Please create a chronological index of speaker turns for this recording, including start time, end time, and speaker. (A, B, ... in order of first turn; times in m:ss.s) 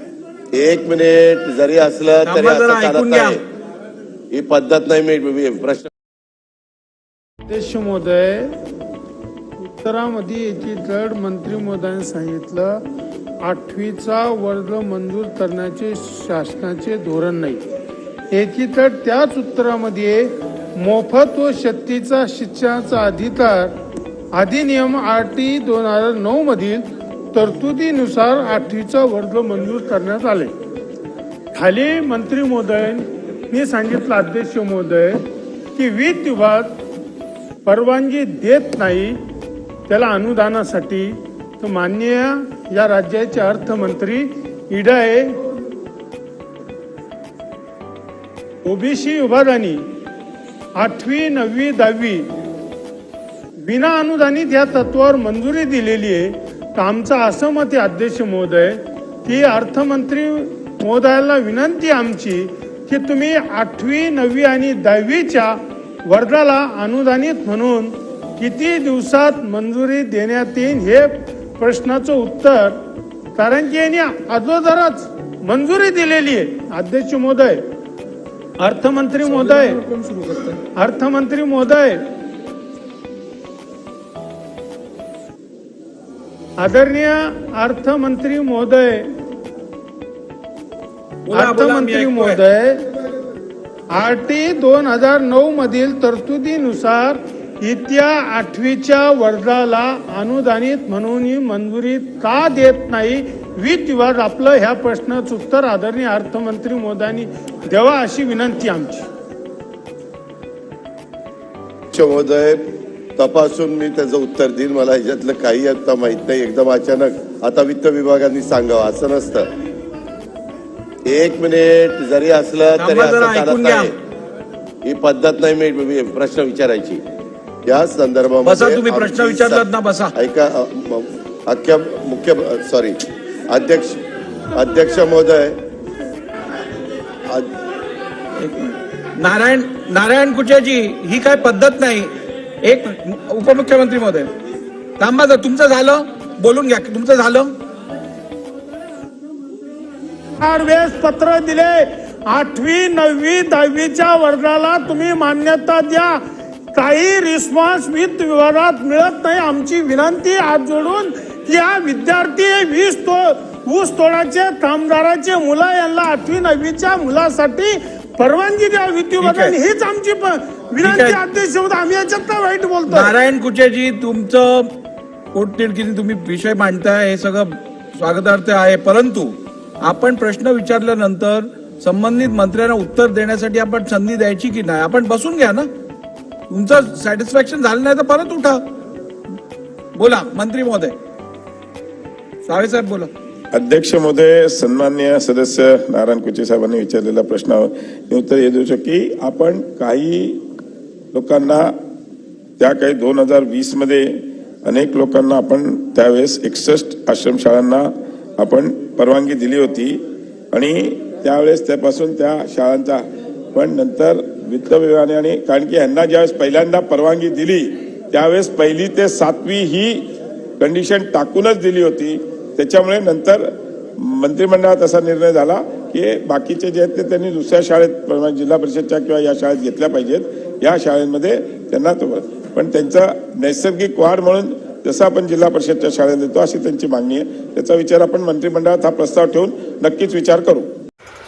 0:00.5-0:03.4 A
0:02.2-0:03.4 B
0:04.3-0:05.9 A
0:07.5-0:08.6 C
0:09.6-0:12.8 C
0:13.4-0:17.6 C
0:18.3-0:23.8 C
0:24.3-0:30.5 C
0:31.5-0:36.8 C
0:37.6-0:39.2 C
0:39.9-0:45.4 C
0:48.6-0:49.8 C
0:50.8-0:52.3 C
0:53.6-1:12.8 C
1:13.4-1:17.6 C
1:18.6-1:19.8 C
1:19.2-1:20.6 B
1:20.7-1:22.0 C
1:26.6-1:29.1 C
1:31.3-1:32.4 B
1:31.3-1:32.9 C
1:33.9-1:49.0 C
1:51.9-1:52.6 A
1:53.2-1:59.5 A
2:01.0-2:03.9 A
2:02.8-2:03.9 B
2:04.8-2:07.0 A
2:07.7-2:14.0 A
2:08.4-2:10.1 B
2:14.5-2:15.6 A
2:18.4-2:22.1 B
2:22.6-2:24.3 B
2:25.0-2:27.5 B
2:30.4-2:36.2 C
2:36.7-2:53.1 C
2:49.2-2:49.6 B
2:50.8-2:51.2 B
2:52.9-2:54.7 B
2:55.3-3:05.7 B
3:06.5-3:08.6 B
3:09.9-3:10.9 B
3:12.4-3:13.1 B
3:13.5-3:20.4 D
3:21.1-3:21.7 D
3:22.6-3:30.0 D
3:30.5-3:33.0 D
3:33.5-3:40.0 D
3:40.6-4:00.7 D